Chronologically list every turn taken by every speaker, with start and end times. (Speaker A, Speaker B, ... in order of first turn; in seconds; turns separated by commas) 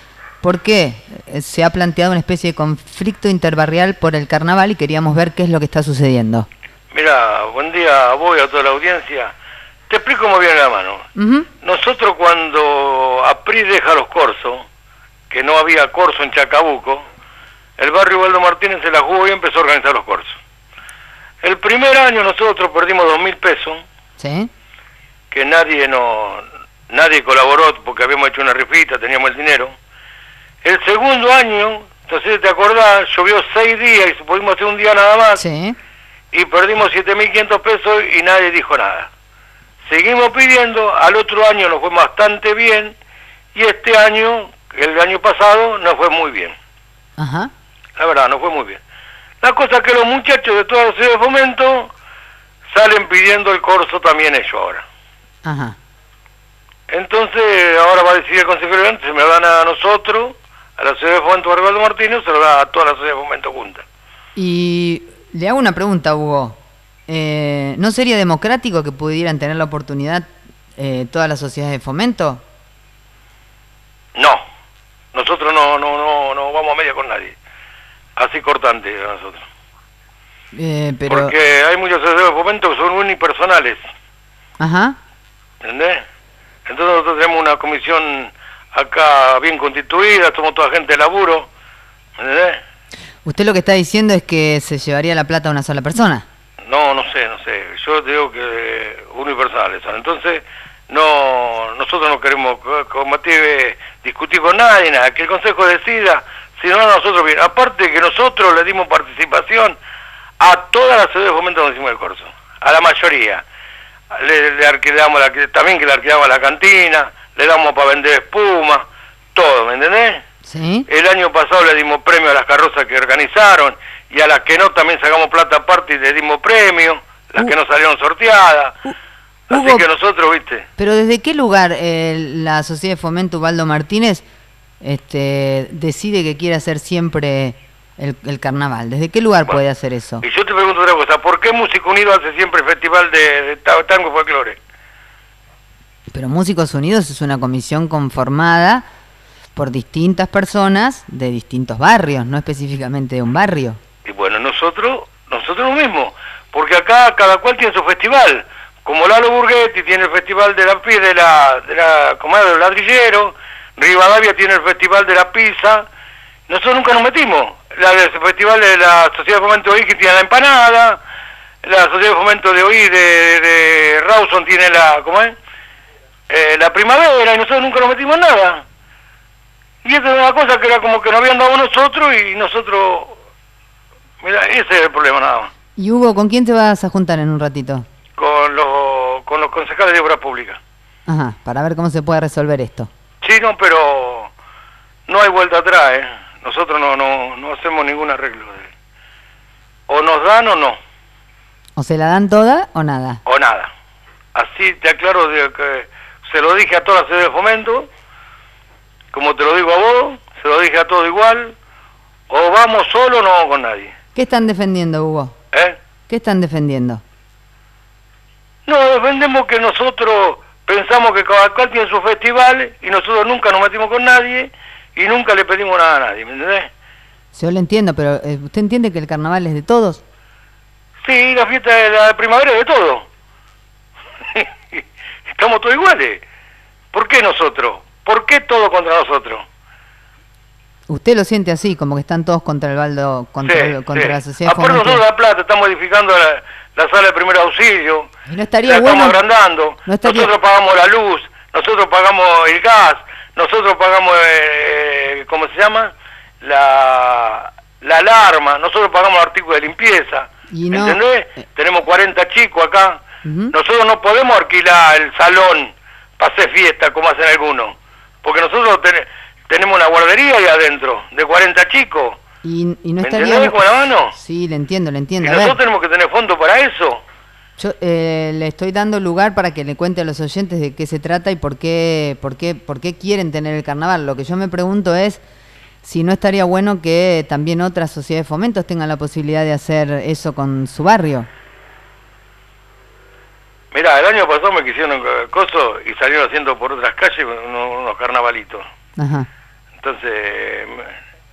Speaker A: 0.4-6.5, Speaker B: 6.9-9.3, Speaker B: 9.9-11.1, Speaker A: 11.2-11.5, Speaker B: 11.6-14.6, Speaker B: 15.3-17.0, Speaker B: 17.8-20.4, Speaker B: 21.4-23.8, Speaker A: 24.2-24.5, Speaker B: 25.3-29.7, Speaker B: 30.6-35.4, Speaker A: 35.4-35.8, Speaker B: 36.3-39.1, Speaker B: 39.8-42.9, Speaker B: 43.5-46.5, Speaker A: 47.2-47.5, Speaker B: 48.0-48.8, Speaker B: 49.4-51.9, Speaker B: 52.7-54.8, Speaker A: 55.4-55.8, Speaker B: 56.9-63.8, Speaker A: 64.3-72.4, Speaker B: 74.2-74.4, Speaker B: 75.1-77.3, Speaker B: 78.2-79.5, Speaker A: 80.5-81.3, Speaker B: 81.1-83.8, Speaker A: 84.6-85.0, Speaker B: 85.6-86.0, Speaker B: 86.7-91.5, Speaker B: 92.2-92.6, Speaker A: 93.2-96.2, Speaker B: 96.7-109.8, Speaker B: 110.4-113.4, Speaker B: 114.1-120.2, Speaker A: 120.5-120.9, Speaker B: 120.9-128.8, Speaker B: 129.5-130.7, Speaker A: 129.5-129.9, Speaker A: 130.8-134.2, Speaker A: 134.8-140.2, Speaker B: 140.2-144.6, Speaker A: 146.1-148.8, Speaker A: 149.6-153.8, Speaker B: 154.1-165.9, Speaker B: 166.5-171.0, Speaker B: 171.6-175.3, Speaker B: 176.3-178.6, Speaker B: 179.8-183.2, Speaker B: 184.2-185.5, Speaker A: 185.8-187.8, Speaker B: 188.2-190.6, Speaker A: 191.1-192.9, Speaker B: 193.2-194.3, Speaker B: 195.1-198.7, Speaker B: 199.9-200.8, Speaker A: 201.8-203.2, Speaker B: 203.2-203.7, Speaker B: 204.3-207.9, Speaker B: 209.1-211.5, Speaker B: 212.3-213.9, Speaker A: 214.1-215.3, Speaker A: 216.1-217.0, Speaker B: 218.7-226.7, Speaker A: 227.3-230.0, Speaker B: 231.0-233.0, Speaker B: 234.3-236.2, Speaker B: 236.9-239.4, Speaker A: 240.9-245.0, Speaker B: 243.4-248.1, Speaker A: 248.3-249.2, Speaker B: 248.6-263.0, Speaker A: 249.8-250.3, Speaker A: 260.5-261.0, Speaker A: 263.2-263.5, Speaker B: 263.5-272.2, Speaker A: 272.4-275.6, Speaker B: 273.0-274.1, Speaker B: 275.2-277.0, Speaker A: 277.6-285.2, Speaker A: 285.8-291.3, Speaker B: 293.7-298.6, Speaker A: 299.0-299.3, Speaker B: 299.8-300.9